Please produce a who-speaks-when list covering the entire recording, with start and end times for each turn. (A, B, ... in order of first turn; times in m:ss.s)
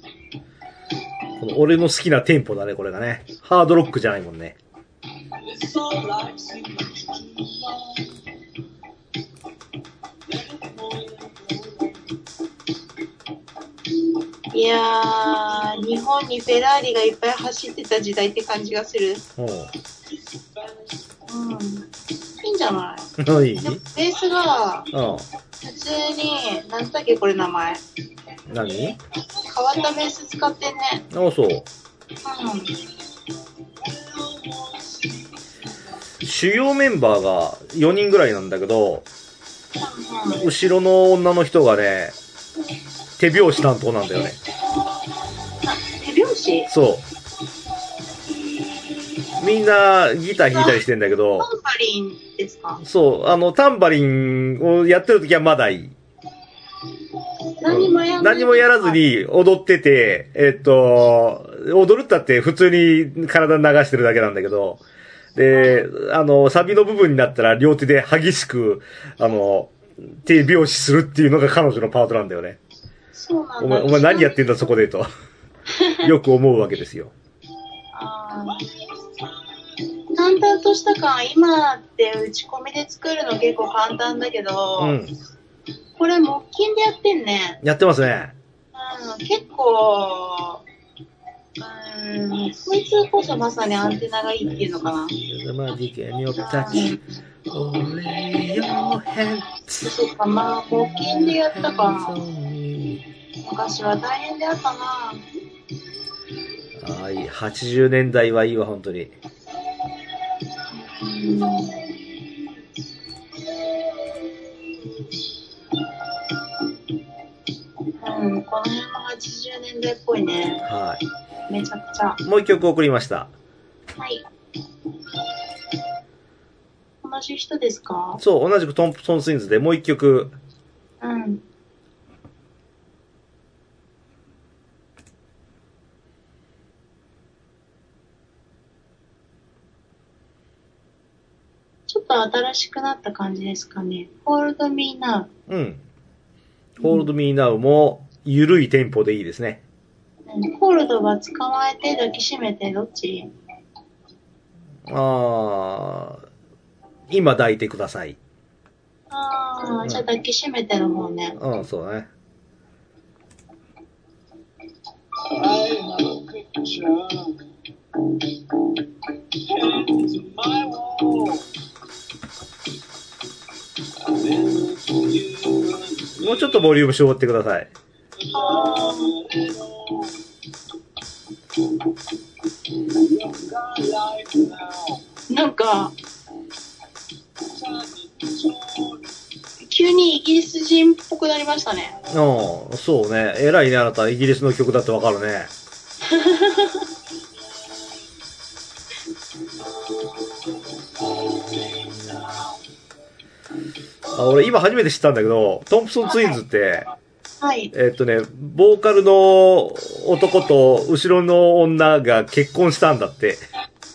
0:01.4-0:04.6 A
0:05.4-0:08.1 B
0:10.3-0:12.0 B
0:14.5-0:19.2 C
0:19.4-0:19.7 A
0:20.3-0:20.8 B
0:21.3-0:21.9 C
0:22.4-0:24.9 C
0:23.2-0:23.8 A
0:24.9-0:25.2 A
0:25.6-0:27.8 C
0:28.5-0:29.0 A
0:29.4-0:31.0 C
0:31.1-0:31.7 A
0:32.2-0:32.8 C
0:33.8-0:35.5 B
0:36.2-0:39.0 A
0:39.8-0:40.5 C
0:40.4-0:42.1 A
0:43.2-0:44.4 A
0:45.6-0:46.7 C
0:46.7-0:47.0 A
0:49.4-0:51.5 A
0:50.5-0:50.8 C
0:51.4-0:52.8 C
0:52.8-0:55.9 A
0:57.6-0:59.0 C
0:57.7-1:04.8 A
1:05.4-1:12.6 A
1:05.5-1:05.8 C
1:13.1-1:14.7 C
1:13.6-1:15.1 A
1:15.7-1:16.1 C
1:16.0-1:17.1 A
1:17.9-1:18.7 C
1:20.1-1:25.0 C
1:24.8-1:25.1 A
1:26.0-1:27.6 C
1:27.6-1:28.3 A
1:28.7-1:30.6 C
1:31.6-1:35.2 C
1:35.1-1:37.0 A
1:36.4-1:37.0 C
1:37.5-1:39.9 A
1:39.8-1:42.2 C
1:40.8-1:43.0 A
1:43.4-1:45.2 C
1:46.8-1:49.1 A
1:50.7-1:51.9 C
1:58.0-2:00.6 C
2:00.6-2:01.0 A
2:01.5-2:02.2 C
2:02.2-2:03.3 A
2:04.0-2:04.2 C
2:07.0-2:08.2 C
2:08.2-2:10.3 A
2:11.0-2:11.4 C
2:21.9-2:25.3 C
2:25.5-2:25.8 A
2:26.8-2:29.6 A
2:26.8-2:27.1 C
2:30.3-2:33.3 C
2:34.8-2:36.2 A
2:37.1-2:38.2 A
2:39.1-2:41.4 C
2:41.4-2:42.1 A
2:45.3-2:47.4 B
2:49.4-2:51.5 B
2:54.0-2:56.6 B
2:56.2-2:57.7 A
2:58.2-3:00.2 B
2:58.3-2:59.1 C
3:02.9-3:05.0 B
3:05.3-3:05.9 C
3:07.4-3:09.1 B
3:09.7-3:12.0 C
3:12.1-3:15.5 A
3:16.1-3:16.8 C
3:24.1-3:26.8 A
3:26.1-3:26.4 C
3:27.4-3:27.7 C
3:27.7-3:33.4 A